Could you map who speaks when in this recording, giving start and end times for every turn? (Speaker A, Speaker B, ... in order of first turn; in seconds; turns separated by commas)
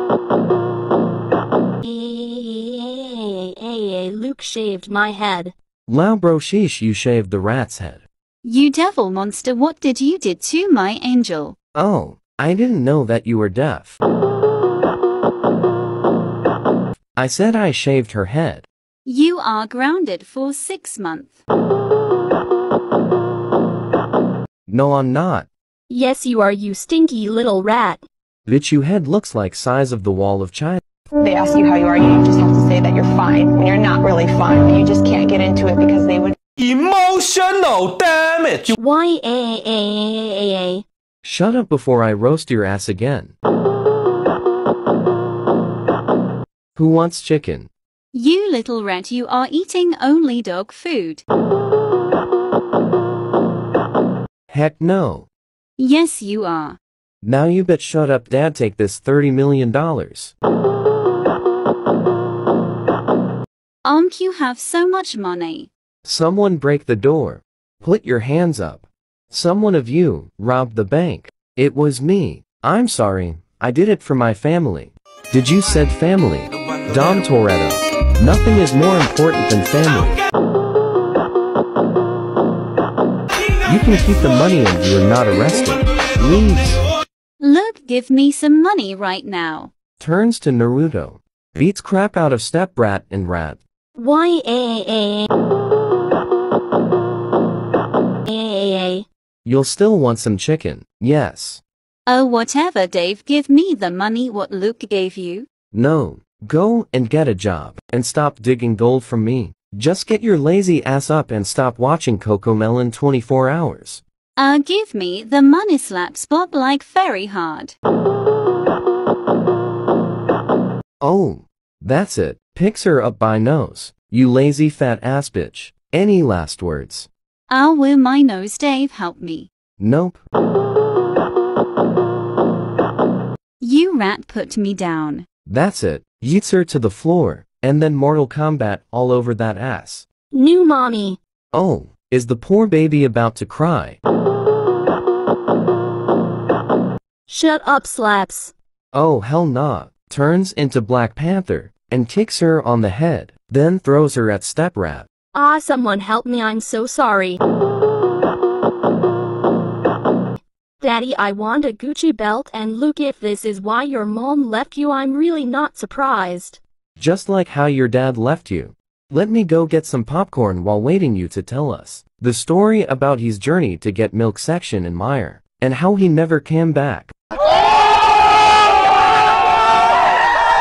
Speaker A: 1.8-5.5, Speaker B: 5.9-8.1, Speaker C: 8.4-11.6, Speaker B: 11.8-14.0, Speaker B: 17.2-18.7, Speaker C: 19.1-21.4, Speaker B: 24.7-25.5, Speaker A: 25.9-28.0, Speaker B: 28.5-30.8, Speaker D: 31.2-36.4, Speaker E: 36.6-38.8, Speaker A: 38.8-40.9, Speaker B: 41.2-43.4, Speaker B: 46.8-47.7, Speaker C: 48.1-51.2, Speaker B: 54.5-55.3, Speaker C: 55.8-56.8, Speaker B: 57.2-60.3, Speaker C: 63.9-65.7, Speaker B: 66.0-80.2, Speaker B: 83.7-86.8, Speaker C: 87.4-89.7, Speaker B: 90.0-93.6, Speaker A: 94.0-95.3, Speaker A: 98.3-99.1, Speaker B: 99.5-101.6, Speaker C: 102.1-105.5, Speaker B: 105.7-114.0, Speaker C: 114.4-117.8, Speaker B: 121.0-127.1, Speaker C: 127.5-129.5, Speaker B: 129.8-130.2, Speaker C: 133.6-135.3, Speaker B: 135.5-140.1, Speaker A: 140.3-141.2, Speaker B: 141.5-144.0, Speaker A: 147.3-148.5, Speaker B: 148.9-155.1, Speaker A: 155.3-157.4, Speaker A: 160.8-166.6, Speaker B: 167.0-177.1